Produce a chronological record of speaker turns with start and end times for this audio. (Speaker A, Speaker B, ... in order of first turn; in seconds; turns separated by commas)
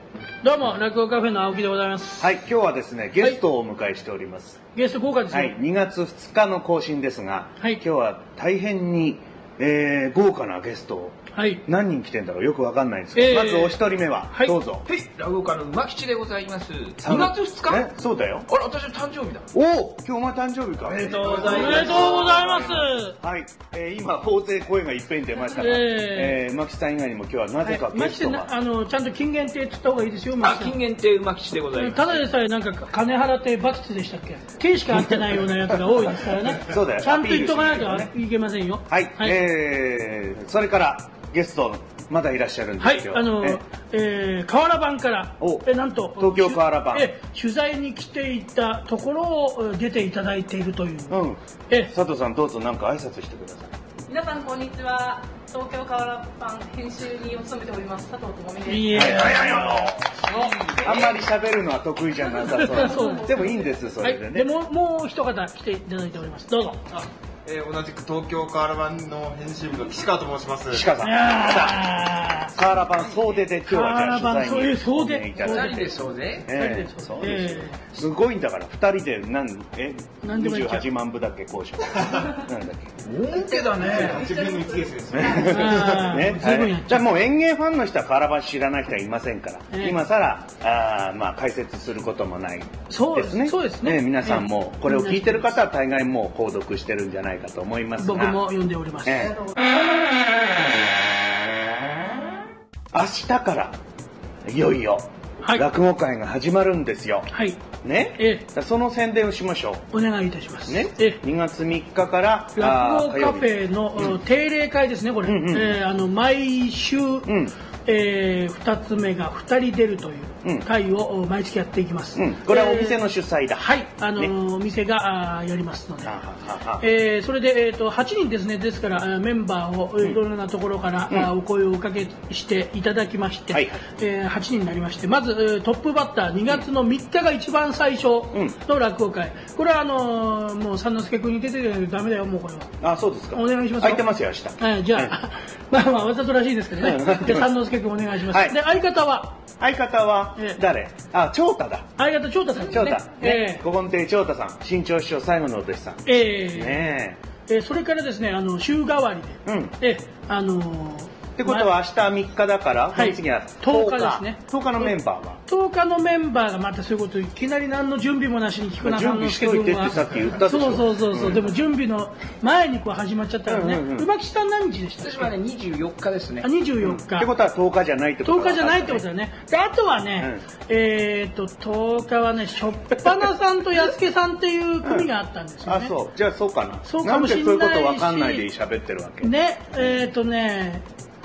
Speaker A: 0.4-2.3, Speaker B: 2.2-4.6, Speaker A: 4.7-5.5, Speaker B: 5.3-14.8, Speaker A: 11.3-11.6, Speaker A: 13.1-14.6, Speaker C: 14.8-17.9, Speaker B: 17.0-18.5, Speaker C: 18.5-19.4, Speaker B: 19.5-28.5, Speaker C: 20.8-22.2, Speaker A: 21.3-23.1, Speaker A: 25.5-26.4, Speaker A: 27.6-30.8, Speaker C: 30.4-32.2, Speaker A: 31.7-39.4, Speaker B: 36.6-38.1, Speaker B: 38.9-43.6, Speaker A: 42.8-51.9, Speaker B: 45.4-47.1, Speaker B: 51.1-53.7, Speaker D: 54.1-59.6, Speaker A: 58.7-60.7, Speaker B: 58.9-60.2, Speaker D: 60.3-61.0, Speaker B: 60.8-64.5, Speaker A: 62.5-66.8, Speaker D: 62.7-63.6, Speaker E: 66.9-70.9, Speaker B: 70.7-82.9, Speaker A: 71.0-72.5, Speaker C: 73.0-73.4, Speaker A: 73.6-75.9, Speaker C: 75.4-76.5, Speaker A: 76.5-77.8, Speaker A: 80.2-80.9, Speaker C: 83.0-84.3, Speaker E: 83.6-85.8, Speaker A: 83.9-84.2, Speaker B: 85.1-98.4, Speaker A: 85.2-87.0, Speaker A: 89.7-90.0, Speaker A: 92.9-95.6, Speaker A: 98.0-99.4, Speaker B: 99.0-99.4, Speaker B: 100.8-101.1, Speaker B: 102.9-103.8, Speaker B: 104.5-107.3, Speaker A: 107.3-107.6, Speaker B: 107.8-109.8, Speaker A: 108.2-108.5, Speaker A: 109.9-111.2, Speaker B: 110.7-114.2, Speaker A: 112.6-117.3, Speaker B: 115.2-115.8, Speaker B: 117.2-117.5, Speaker A: 117.8-123.0, Speaker B: 122.2-124.3, Speaker A: 123.6-126.1, Speaker B: 126.0-126.9, Speaker A: 126.8-142.7, Speaker B: 133.5-133.8, Speaker B: 142.8-145.2, Speaker A: 143.3-144.1, Speaker A: 144.6-149.4, Speaker B: 146.8-147.6, Speaker B: 148.2-148.6, Speaker B: 149.6-151.9, Speaker A: 152.0-153.6, Speaker B: 152.6-157.2, Speaker A: 156.1-156.9, Speaker A: 157.4-161.7, Speaker B: 159.4-159.8, Speaker B: 161.4-165.4, Speaker A: 162.9-175.3, Speaker B: 168.8-171.5, Speaker B: 173.5-174.1, Speaker C: 175.0-176.5, Speaker A: 176.4-177.3, Speaker B: 176.8-179.1, Speaker A: 178.2-185.9, Speaker B: 180.2-180.4, Speaker B: 184.8-185.1, Speaker B: 185.6-190.1, Speaker A: 186.8-188.5, Speaker A: 189.2-190.8